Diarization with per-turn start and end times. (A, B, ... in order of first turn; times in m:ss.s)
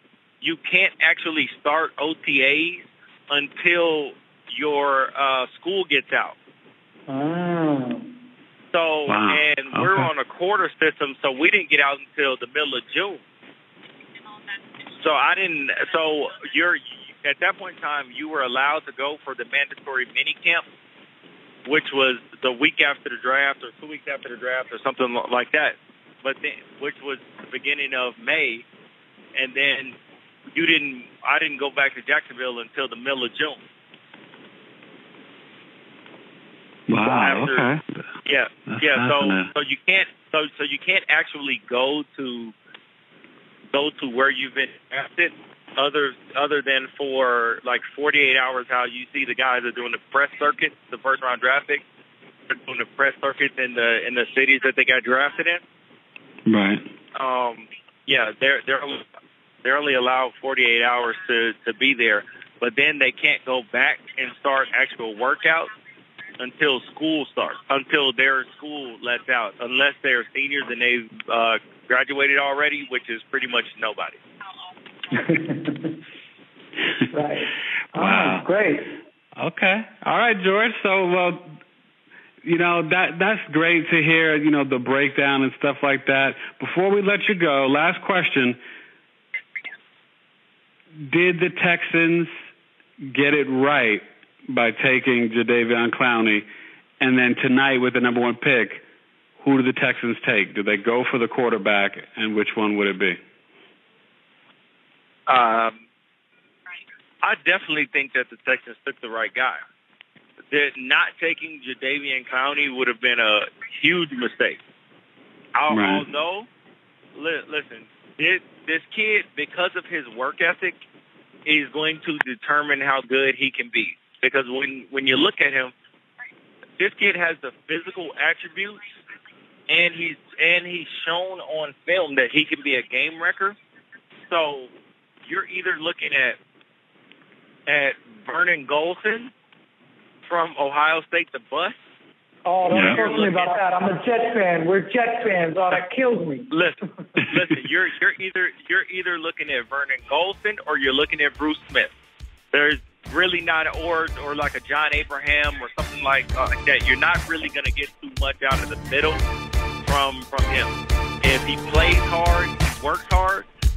0:00.4-0:06.4 A
0:07.1-0:08.1 B
0:08.7-0:13.2 A
0:09.1-0:10.1 C
0:15.0-0:20.6 A
0:21.6-0:28.6 A
0:29.3-0:30.0 A
0:30.5-0:33.6 A
0:36.9-0:38.0 C
0:37.0-0:37.7 A
0:38.2-0:42.5 A
0:38.7-0:39.5 C
0:43.7-0:51.8 A
0:52.5-0:55.6 A
0:56.4-0:56.8 C
0:57.2-0:59.0 A
0:59.6-1:05.7 A
1:06.4-1:14.2 A
1:15.1-1:15.9 B
1:17.1-1:18.9 B
1:17.9-1:18.4 C
1:19.4-1:21.6 C
1:22.4-1:28.6 C
1:31.1-1:32.3 C
1:33.0-1:36.4 C
1:37.0-1:38.8 C
1:39.4-1:43.2 C
1:45.3-1:45.8 A
1:47.2-1:49.6 A
1:50.5-1:54.6 A
1:55.5-1:56.5 A
1:55.7-1:56.0 C
1:57.1-2:00.8 A
2:01.4-2:05.7 A
2:06.8-2:08.8 A
2:09.7-2:13.6 A
2:14.3-2:14.7 A
2:15.2-2:16.4 A
2:17.7-2:19.3 A
2:20.2-2:21.7 A
2:22.4-2:26.5 B
2:22.7-2:23.0 C
2:22.7-2:23.6 A
2:26.5-2:31.9 A
2:32.5-2:39.2 A
2:39.8-2:43.5 A